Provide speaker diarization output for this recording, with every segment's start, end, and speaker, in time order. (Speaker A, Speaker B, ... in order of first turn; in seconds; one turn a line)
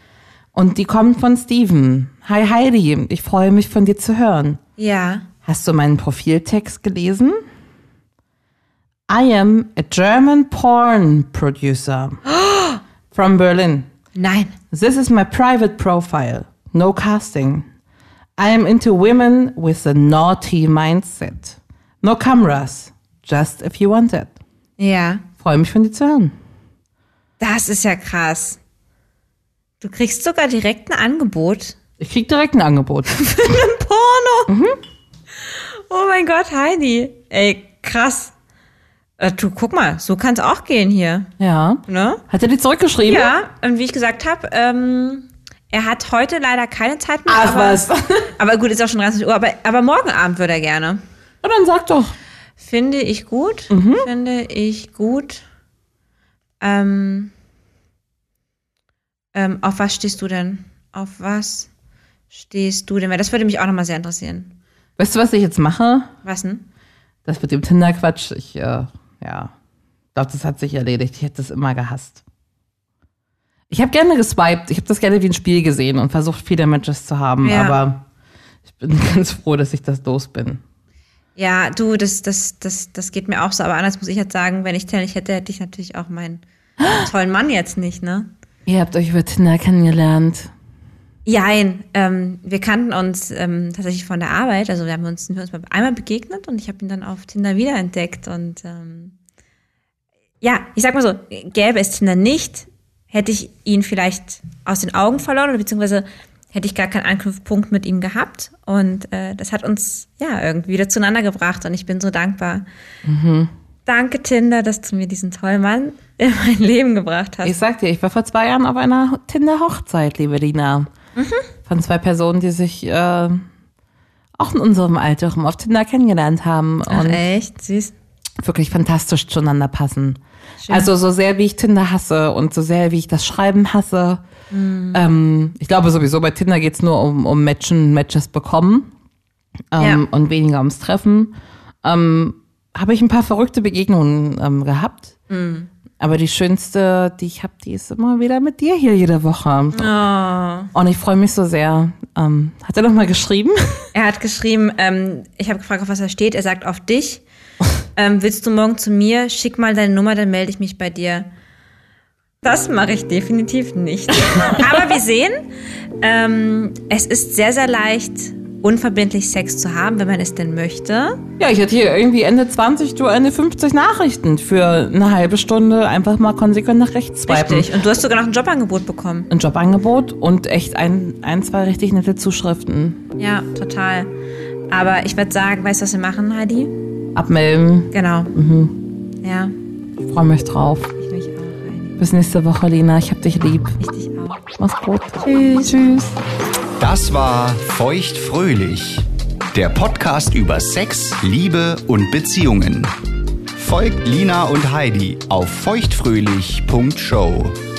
Speaker A: 0.6-4.6
Speaker B: 4.8-5.3
Speaker A: 5.4-7.4
Speaker A: 9.1-12.2
Speaker B: 12.3-12.8
Speaker A: 13.1-13.9
Speaker B: 14.2-14.6
Speaker A: 14.7-17.6
Speaker A: 18.4-24.4
Speaker B: 24.8-25.2
Speaker A: 25.4-26.3
Speaker B: 27.4-28.6
Speaker B: 29.8-31.8
Speaker A: 32.0-33.3
Speaker B: 33.1-34.5
Speaker A: 34.5-34.8
Speaker B: 35.4-38.3
Speaker B: 39.2-41.3
Speaker A: 41.4-43.3
Speaker B: 41.9-42.2
Speaker B: 43.1-47.8
Speaker A: 47.3-48.3
Speaker B: 48.4-51.0
Speaker A: 51.4-52.1
Speaker B: 52.6-55.4
Speaker A: 53.7-54.1
Speaker B: 56.6-57.3
Speaker B: 59.3-61.7
Speaker B: 62.3-64.5
Speaker A: 65.0-66.1
Speaker B: 66.2-66.7
Speaker A: 67.3-69.5
Speaker A: 70.2-72.2
Speaker A: 73.7-78.0
Speaker B: 77.4-77.8
Speaker A: 78.8-80.6
Speaker B: 81.4-88.3
Speaker A: 88.7-90.5
Speaker B: 91.2-99.2
Speaker B: 100.4-112.7
Speaker A: 113.0-113.5
Speaker B: 113.9-117.6
Speaker A: 117.4-120.9
Speaker B: 121.2-121.5
Speaker A: 121.7-123.5
Speaker A: 124.4-127.2
Speaker B: 126.9-127.9
Speaker A: 128.4-134.2
Speaker B: 130.6-130.9
Speaker B: 134.5-135.0
Speaker A: 134.9-138.9
Speaker A: 139.7-145.2
Speaker B: 139.8-140.0
Speaker B: 145.3-145.7
Speaker A: 146.0-149.9
Speaker B: 149.8-150.7
Speaker A: 150.7-153.8
Speaker B: 153.9-157.2
Speaker B: 158.0-161.3
Speaker B: 162.4-165.4
Speaker B: 166.0-171.2
Speaker A: 171.4-177.7
Speaker B: 177.3-179.3
Speaker A: 179.3-183.1
Speaker B: 183.2-184.2
Speaker B: 184.7-186.8
Speaker A: 187.2-188.8
Speaker B: 187.9-188.3
Speaker B: 189.2-189.5
Speaker A: 190.0-191.0
Speaker B: 191.0-192.0
Speaker A: 192.0-193.8
Speaker B: 193.8-194.4
Speaker A: 194.6-196.1
Speaker B: 195.2-195.8
Speaker C: 196.8-202.9
Speaker C: 203.5-207.6